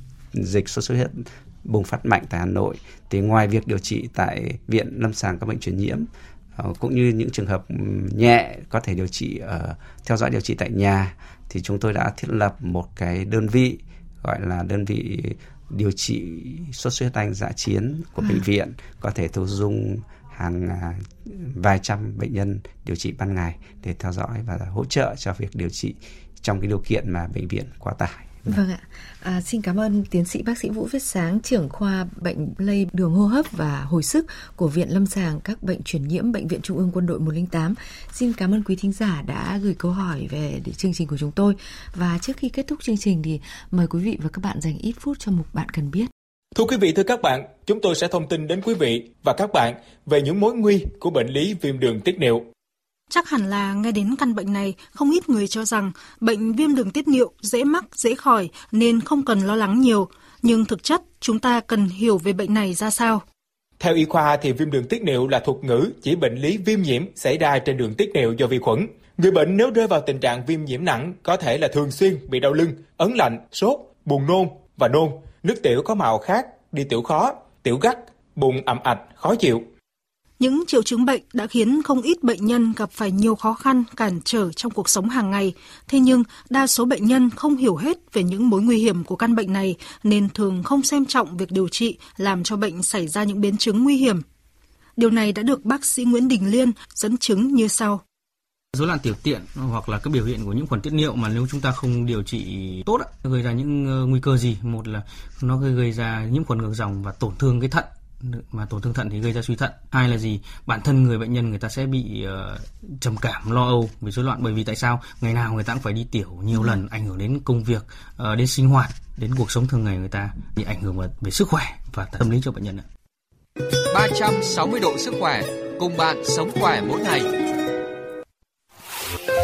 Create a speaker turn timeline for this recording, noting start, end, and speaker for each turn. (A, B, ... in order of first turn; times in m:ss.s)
0:00.3-0:28.6 A
0:28.5-0:46.1 B
0:46.5-0:52.5 C
0:53.1-1:03.2 D
1:03.8-1:19.6 C
1:20.4-1:34.2 D
1:35.0-1:38.0 D
1:38.7-2:02.9 E
2:03.9-2:07.3 F